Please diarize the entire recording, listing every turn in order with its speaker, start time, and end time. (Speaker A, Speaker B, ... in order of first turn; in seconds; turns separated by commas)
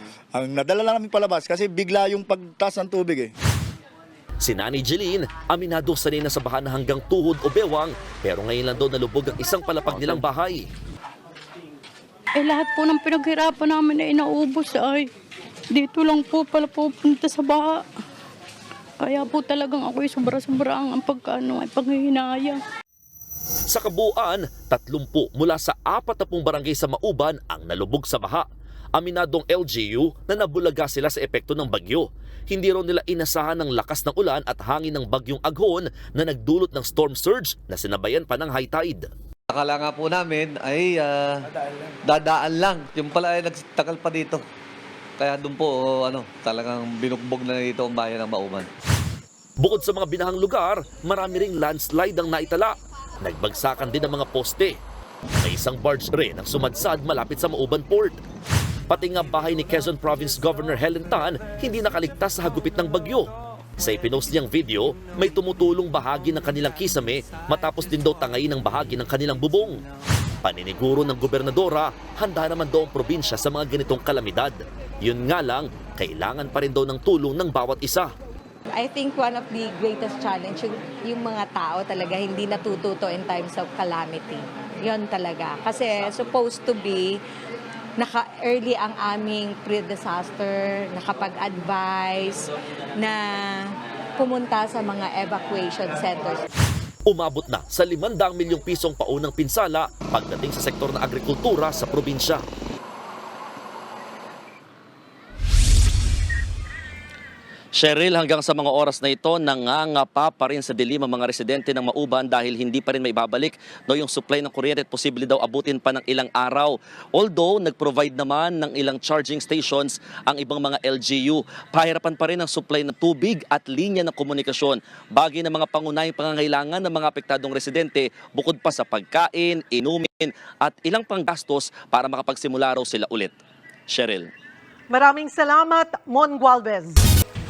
Speaker A: 0.3-3.3, Speaker B: 4.4-10.6, Speaker C: 12.4-15.1, Speaker C: 15.7-17.8, Speaker C: 19.0-22.6, Speaker B: 23.7-39.1, Speaker D: 39.5-41.3, Speaker D: 42.0-44.4, Speaker D: 45.2-48.7, Speaker B: 49.6-54.8, Speaker B: 55.4-58.2, Speaker B: 58.9-63.3, Speaker B: 63.8-69.8, Speaker B: 70.4-78.1, Speaker E: 78.7-87.2, Speaker E: 88.0-96.4, Speaker B: 97.1-102.4, Speaker B: 107.7-133.3, Speaker B: 133.9-134.3, Speaker F: 134.9-137.0